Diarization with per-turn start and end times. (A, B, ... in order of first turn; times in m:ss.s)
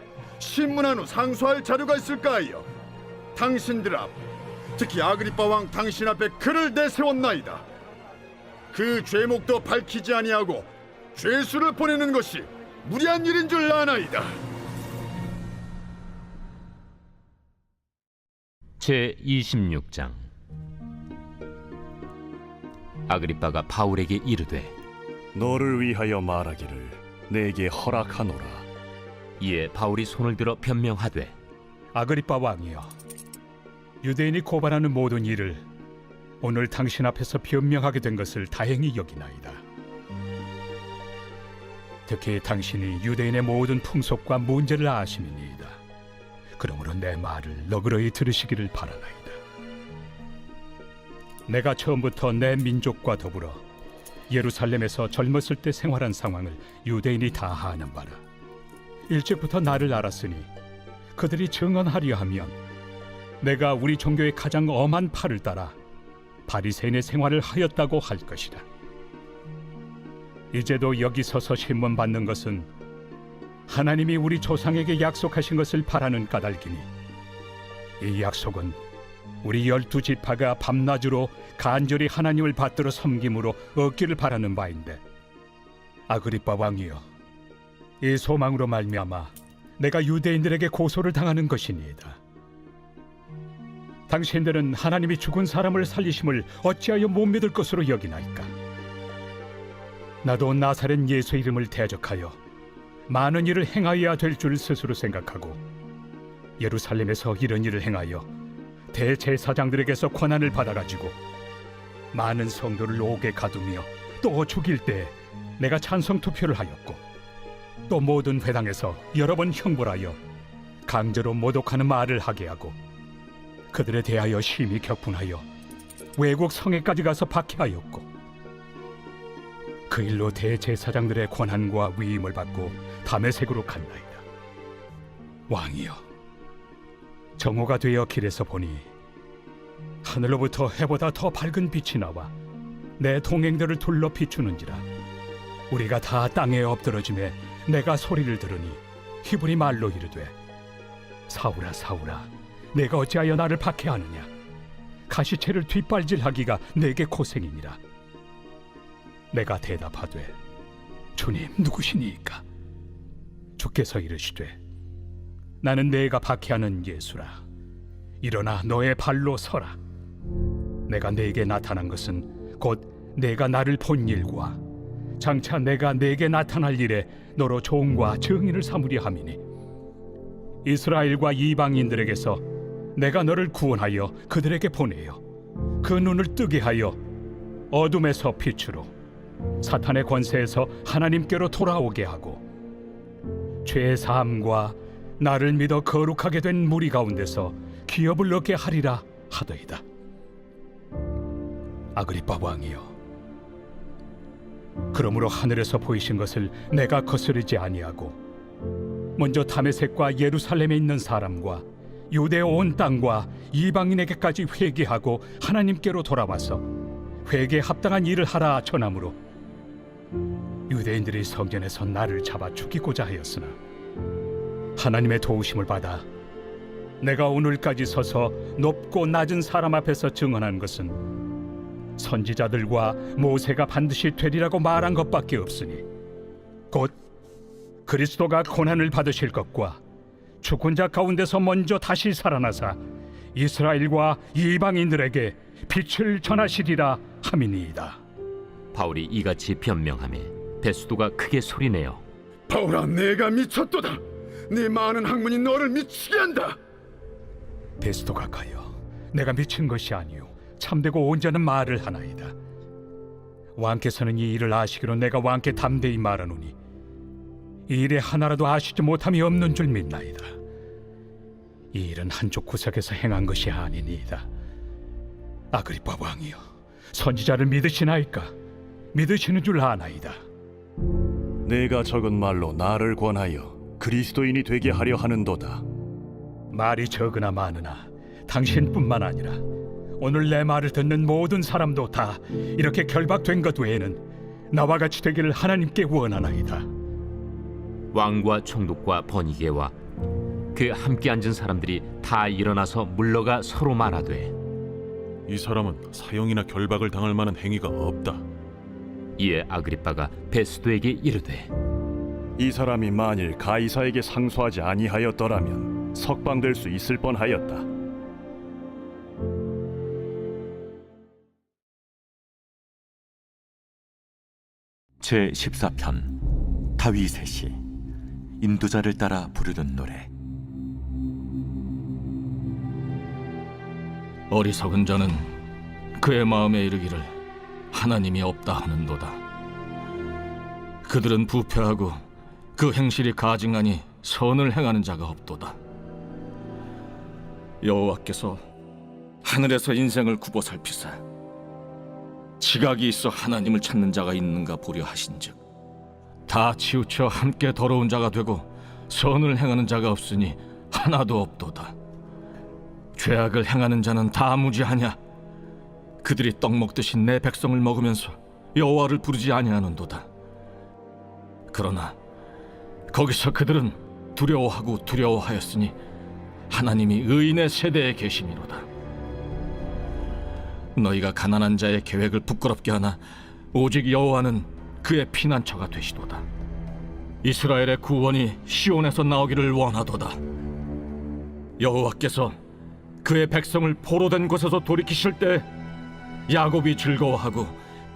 0:00.4-0:02.7 A
0:03.4-0:04.1 A
0:04.8-0:07.6 A
0:08.7-0:14.3 A
0:18.8-0:20.3 B
0:23.1-0:24.7 B
0:25.4-0:28.6 C
0:29.4-0:31.3 B
0:31.9-0:32.9 D
0:34.0-0:35.6 D
0:36.4-0:39.6 D
0:42.1-0:45.8 D
0:46.6-0:49.4 D
0:51.5-0:53.6 D
0:54.3-0:58.2 D
0:59.1-1:00.5 D
1:01.2-1:02.6 D
1:03.4-1:05.8 D
1:06.5-1:08.6 D
1:10.5-1:12.7 D
1:13.7-1:16.9 D
1:18.0-1:18.8 D
1:19.4-1:25.0 D
1:26.1-1:27.0 D
1:28.0-1:32.2 D
1:34.1-1:38.5 D
1:40.2-1:42.4 D
1:43.1-1:45.6 D
1:46.6-1:48.3 D
1:48.9-1:51.2 D
1:52.1-1:57.0 D
1:57.9-2:00.2 D
2:00.9-2:02.8 D
2:03.7-2:05.4 D
2:06.2-2:08.1 D
2:09.9-2:14.2 D
2:15.5-2:16.0 D
2:17.4-2:18.9 D
2:20.0-2:22.3 D
2:23.0-2:24.8 D
2:25.7-2:30.3 D
2:31.3-2:34.3 D
2:35.1-2:37.8 D
2:39.3-2:40.3 D
2:41.2-2:42.4 D
2:43.6-2:44.6 D
2:45.6-2:47.4 D
2:48.2-2:49.8 D
2:50.9-2:54.6 D
2:55.2-2:59.4 D
3:00.6-3:02.4 D
3:03.0-3:05.2 D
3:05.8-3:07.0 D
3:07.7-3:08.9 D
3:09.6-3:12.4 D
3:13.6-3:19.8 D
3:22.0-3:22.9 D
3:24.9-3:28.2 D
3:29.2-3:36.7 D
3:37.2-3:39.2 D
3:40.7-3:43.6 D
3:44.8-3:46.0 D
3:47.0-3:51.0 D
3:52.0-3:55.8 D
3:57.9-3:59.8 D
4:00.4-4:02.8 D
4:03.4-4:08.0 D
4:08.7-4:12.0 B
4:12.5-4:16.6 A
4:17.8-4:22.4 D
4:23.6-4:26.6 D
4:27.7-4:30.3 D
4:31.7-4:34.3 D
4:35.5-4:36.4 D
4:36.9-4:38.3 D
4:38.9-4:40.2 D
4:41.4-4:45.6 C
4:46.5-4:49.4 D
4:50.0-4:54.0 D
4:54.5-4:56.7 D
4:57.9-4:59.7 B
5:00.5-5:04.3 B
5:05.3-5:08.2 E
5:09.2-5:11.5 B
5:12.4-5:17.7 C
5:25.0-5:27.6 F
5:28.4-5:30.1 F
5:34.3-5:35.3 G
5:36.0-5:37.1 G
5:37.7-5:39.2 G
5:40.8-5:42.0 G
5:42.6-5:45.6 G
5:47.6-5:48.4 G
5:49.2-5:51.0 G
5:52.4-5:55.4 G
5:56.3-6:01.7 G
6:03.0-6:05.0 G
6:06.0-6:10.0 G
6:11.5-6:12.0 G
6:12.9-6:15.7 G
6:16.5-6:18.7 G
6:20.8-6:23.0 G
6:23.5-6:26.2 G
6:27.2-6:30.2 G
6:31.6-6:32.4 G
6:33.0-6:35.5 G
6:36.3-6:37.5 G